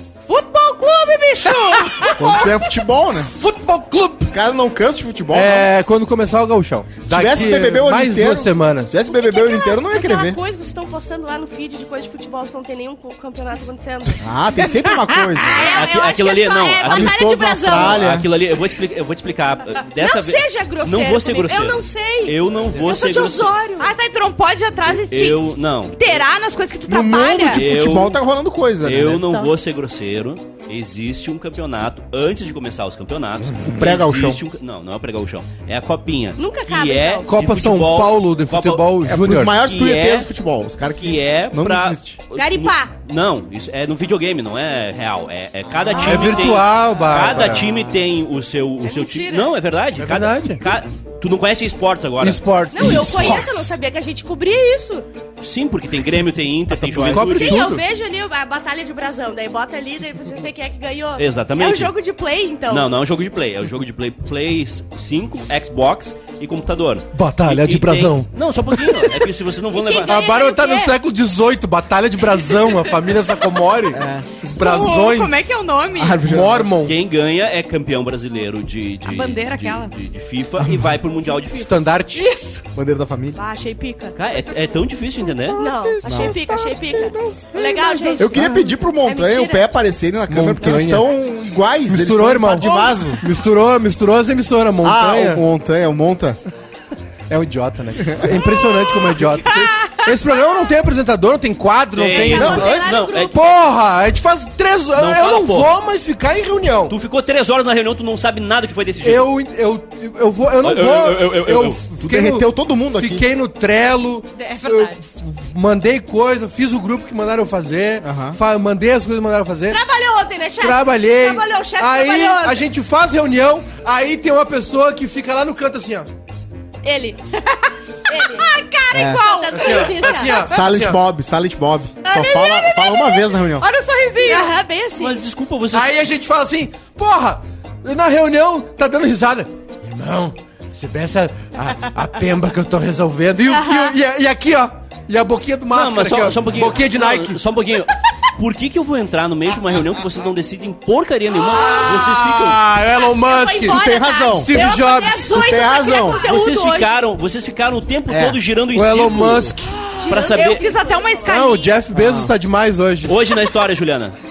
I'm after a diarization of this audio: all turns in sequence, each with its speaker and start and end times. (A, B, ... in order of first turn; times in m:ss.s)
0:00.3-0:02.6 A
0:01.5-0:02.5 B
0:02.2-0:03.3 C
0:03.1-0:04.3 B
0:04.3-0:05.7 C
0:05.3-0:08.9 B
0:07.1-0:10.4 C
0:09.0-0:14.2 D
0:14.2-0:15.8 C
0:14.9-0:15.2 A
0:15.4-0:18.0 D
0:15.5-0:23.5 E
0:16.8-0:18.3 C
0:20.0-0:23.9 D
0:23.8-0:27.6 A
0:24.9-0:26.1 E
0:26.9-0:29.5 C
0:27.5-0:28.2 E
0:28.8-0:40.3 E
0:33.6-0:34.4 C
0:36.4-0:37.3 D
0:37.3-0:39.6 B
0:39.0-0:42.2 C
0:40.9-0:52.4 E
0:42.4-0:42.9 D
0:45.7-0:46.6 C
0:46.0-0:47.7 B
0:48.8-0:49.5 D
0:50.0-0:50.6 B
0:52.2-0:53.7 B
0:52.7-0:55.1 D
0:55.4-0:57.7 E
0:56.8-0:57.8 B
0:57.1-1:02.9 D
1:01.2-1:01.9 E
1:02.7-1:10.2 E
1:07.1-1:09.3 B
1:09.7-1:11.0 D
1:10.0-1:15.5 B
1:13.9-1:14.3 C
1:14.5-1:16.2 A
1:16.0-1:16.7 C
1:16.2-1:17.0 B
1:16.8-1:21.8 E
1:19.0-1:19.9 A
1:20.6-1:21.0 C
1:21.6-1:22.3 B
1:22.1-1:22.6 A
1:22.7-1:23.4 C
1:23.4-1:24.2 D
1:24.2-1:25.6 E
1:25.5-1:28.7 B
1:25.5-1:29.7 D
1:26.0-1:26.4 C
1:28.2-1:33.2 C
1:30.3-1:31.1 B
1:31.9-1:35.4 B
1:32.6-1:32.9 D
1:34.8-1:36.4 C
1:37.3-1:47.0 B
1:38.0-1:38.3 C
1:38.6-1:40.2 A
1:41.9-1:43.4 E
1:42.1-1:43.6 D
1:42.3-1:42.9 C
1:45.0-1:45.7 E
1:46.9-1:49.3 E
1:49.0-1:59.8 B
1:50.6-1:51.8 E
1:52.0-1:53.3 C
1:54.4-1:55.0 A
1:58.0-1:58.4 C
1:59.7-2:02.6 D
2:00.6-2:06.1 B
2:06.8-2:08.5 D
2:08.1-2:10.5 A
2:08.9-2:09.2 C
2:09.1-2:10.5 D
2:09.5-2:11.0 B
2:10.5-2:13.7 C
2:12.0-2:14.6 A
2:14.2-2:15.2 D
2:15.0-2:16.0 E
2:15.7-2:27.4 B
2:25.7-2:32.6 E
2:31.5-2:33.8 B
2:33.0-2:37.0 D
2:33.7-2:34.8 C
2:34.3-2:35.4 B
2:35.3-2:36.2 C
2:36.2-2:39.5 E
2:38.1-2:38.4 C
2:38.7-2:39.8 B
2:39.7-2:41.8 A
2:40.0-2:41.3 D
2:40.1-2:40.7 E
2:41.3-2:43.2 B
2:41.9-2:42.3 C
2:43.0-2:44.2 E